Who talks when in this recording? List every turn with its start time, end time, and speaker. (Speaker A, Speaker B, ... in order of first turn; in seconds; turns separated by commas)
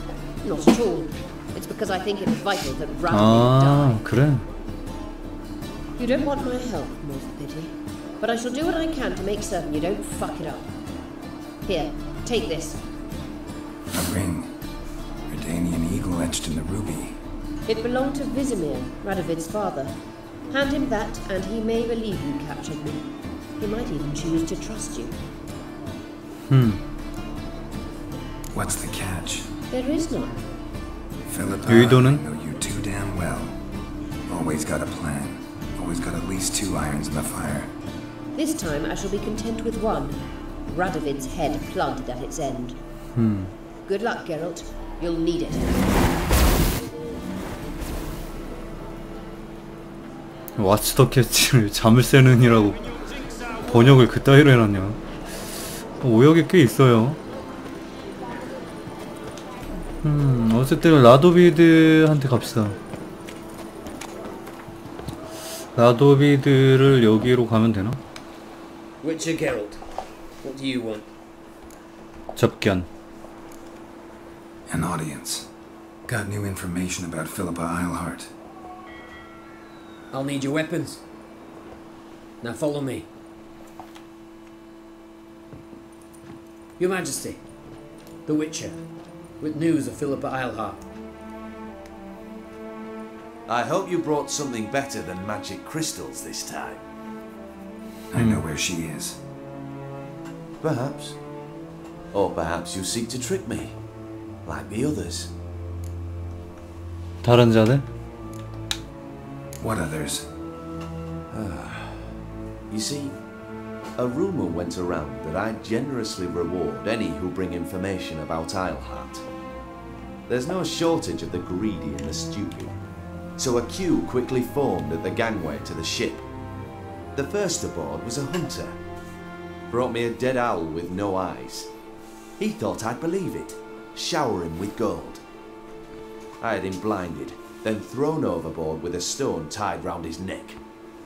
Speaker A: 0.4-4.0, Speaker B: 3.1-4.5, Speaker A: 6.0-10.7, Speaker A: 11.7-12.8, Speaker C: 13.9-14.5, Speaker C: 15.3-17.2, Speaker A: 17.7-19.9, Speaker A: 20.5-25.2, Speaker B: 26.5-26.8, Speaker C: 28.5-29.5, Speaker A: 29.7-30.4, Speaker C: 31.3-33.6, Speaker B: 31.7-32.2, Speaker C: 34.3-37.7, Speaker A: 38.3-42.8, Speaker B: 43.2-43.5, Speaker A: 43.9-45.9, Speaker B: 50.6-52.8, Speaker B: 53.5-55.0, Speaker B: 56.0-57.2, Speaker B: 60.0-62.8, Speaker B: 65.8-68.0, Speaker D: 69.0-69.8, Speaker D: 70.4-71.1, Speaker B: 72.4-72.9, Speaker C: 74.7-75.5, Speaker C: 76.1-78.3, Speaker D: 80.1-81.0, Speaker D: 82.4-83.1, Speaker D: 86.8-87.4, Speaker D: 88.3-88.8, Speaker D: 89.4-90.9, Speaker E: 93.5-96.8, Speaker C: 98.1-99.2, Speaker B: 98.2-98.4, Speaker E: 100.6-101.2, Speaker E: 102.1-103.8, Speaker E: 104.5-105.3, Speaker B: 107.2-107.9, Speaker C: 109.6-110.3, Speaker E: 111.3-112.2, Speaker E: 112.7-113.2, Speaker E: 114.0-119.2, Speaker E: 120.3-122.8, Speaker E: 123.4-126.3, Speaker E: 127.2-128.8, Speaker E: 129.7-131.7, Speaker E: 132.4-135.2, Speaker E: 136.4-140.6